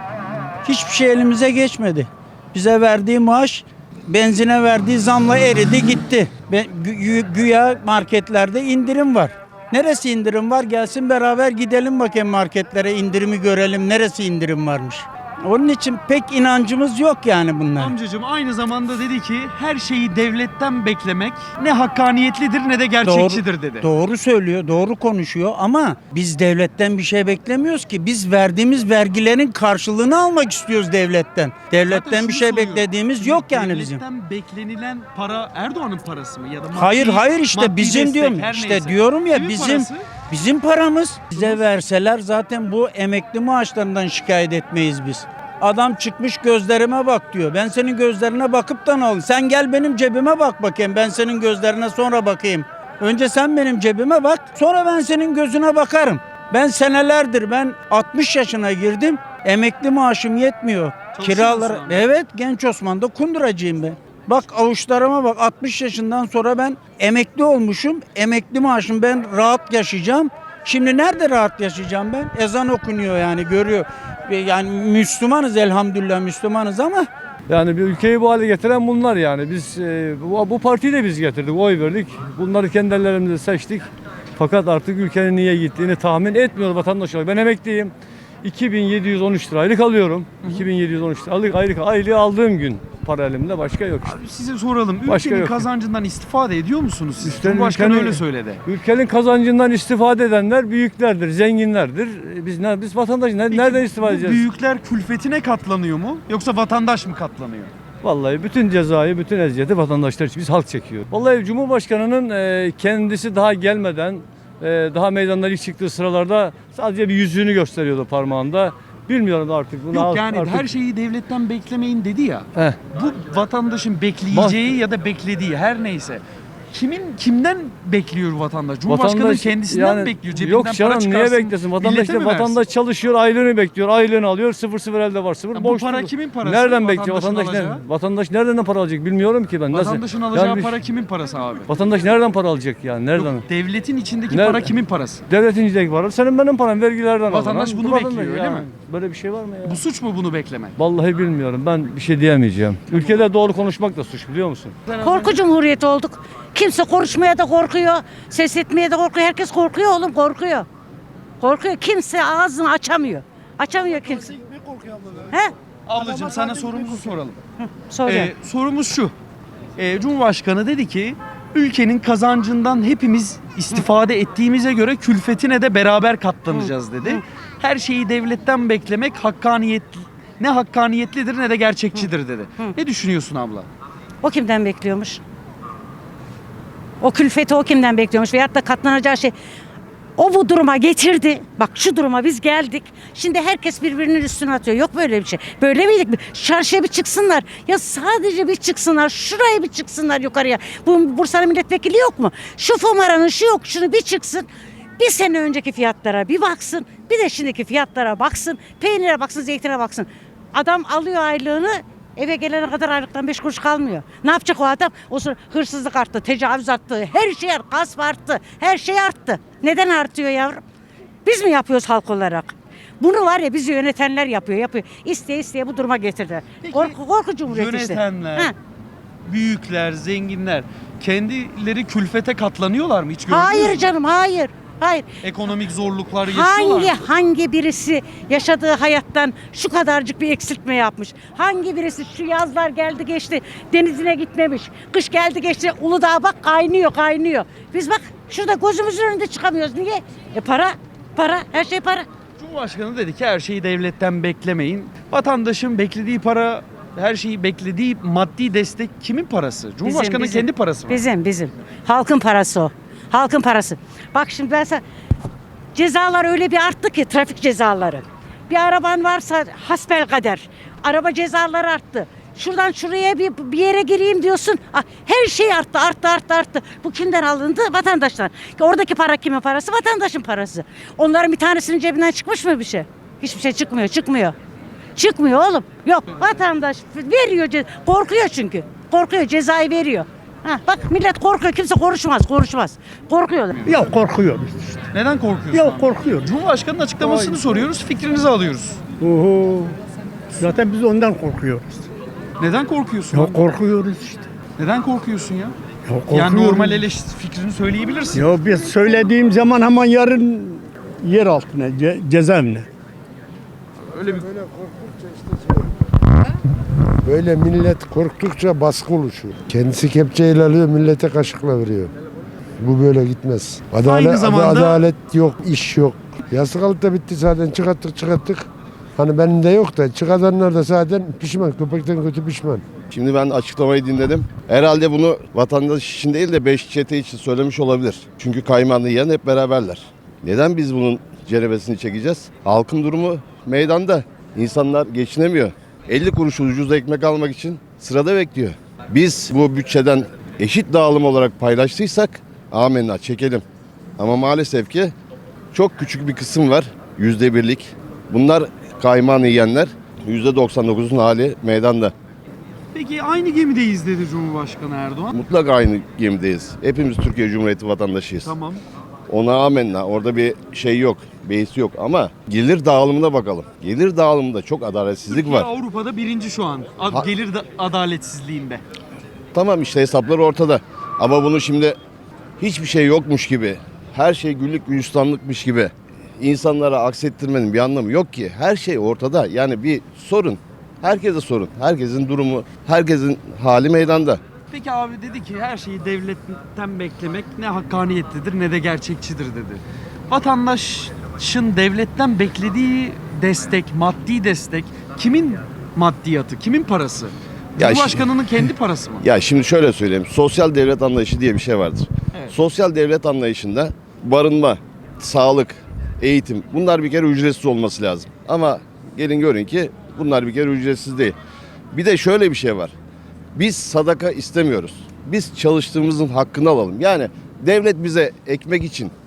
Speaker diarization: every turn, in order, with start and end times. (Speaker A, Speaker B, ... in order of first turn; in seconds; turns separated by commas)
Speaker A: 0.6-17.9, Speaker B: 17.8-23.8, Speaker A: 23.0-34.0, Speaker B: 31.8-40.0, Speaker A: 36.7-77.1, Speaker B: 41.4-41.6, Speaker B: 61.1-62.1, Speaker C: 77.5-87.9, Speaker C: 88.4-94.2, Speaker B: 94.1-98.6, Speaker C: 95.0-95.7, Speaker C: 97.2-104.4, Speaker B: 103.5-107.7, Speaker C: 108.0-120.7, Speaker B: 119.9-132.5, Speaker C: 122.5-122.8, Speaker C: 124.3-124.7, Speaker C: 128.9-140.8, Speaker B: 135.5-137.8, Speaker B: 139.7-141.7, Speaker C: 141.7-143.4, Speaker B: 143.2-145.2, Speaker C: 144.3-144.8, Speaker C: 145.3-149.8, Speaker B: 147.3-148.7, Speaker B: 149.7-150.7, Speaker C: 150.8-154.8, Speaker B: 154.9-155.3, Speaker D: 155.0-160.7, Speaker D: 161.4-164.4, Speaker B: 165.9-167.4, Speaker D: 167.6-168.3, Speaker B: 168.1-169.1, Speaker B: 169.8-183.7, Speaker D: 176.5-177.2, Speaker D: 181.9-182.8, Speaker D: 184.2-185.2, Speaker D: 187.0-189.3, Speaker D: 190.2-204.5, Speaker D: 205.0-220.6, Speaker D: 221.2-228.5, Speaker B: 226.6-226.9, Speaker B: 227.4-228.5, Speaker B: 229.2-233.9, Speaker D: 233.3-235.1, Speaker B: 235.2-237.0, Speaker D: 236.3-252.1, Speaker B: 252.4-261.0, Speaker D: 259.8-264.8, Speaker D: 265.7-284.3, Speaker D: 285.0-293.6, Speaker E: 293.6-294.8, Speaker B: 294.9-298.8, Speaker E: 295.5-296.3, Speaker E: 297.0-297.5, Speaker E: 299.0-299.7, Speaker E: 300.4-301.6, Speaker B: 302.4-303.4, Speaker E: 303.1-304.2, Speaker B: 304.6-305.5, Speaker E: 305.9-306.8, Speaker B: 306.1-308.2, Speaker E: 308.1-312.6, Speaker F: 317.1-321.9, Speaker F: 322.6-332.6, Speaker B: 323.8-324.9, Speaker G: 332.9-353.4, Speaker G: 354.0-354.9, Speaker G: 355.5-361.9, Speaker B: 362.7-365.1, Speaker G: 365.1-368.4, Speaker B: 368.2-368.6, Speaker G: 369.1-375.5, Speaker B: 375.1-378.6, Speaker G: 376.9-377.1, Speaker G: 379.3-381.8, Speaker G: 382.4-394.2, Speaker B: 394.5-409.0, Speaker G: 407.6-421.1, Speaker G: 421.7-422.7, Speaker G: 423.3-428.9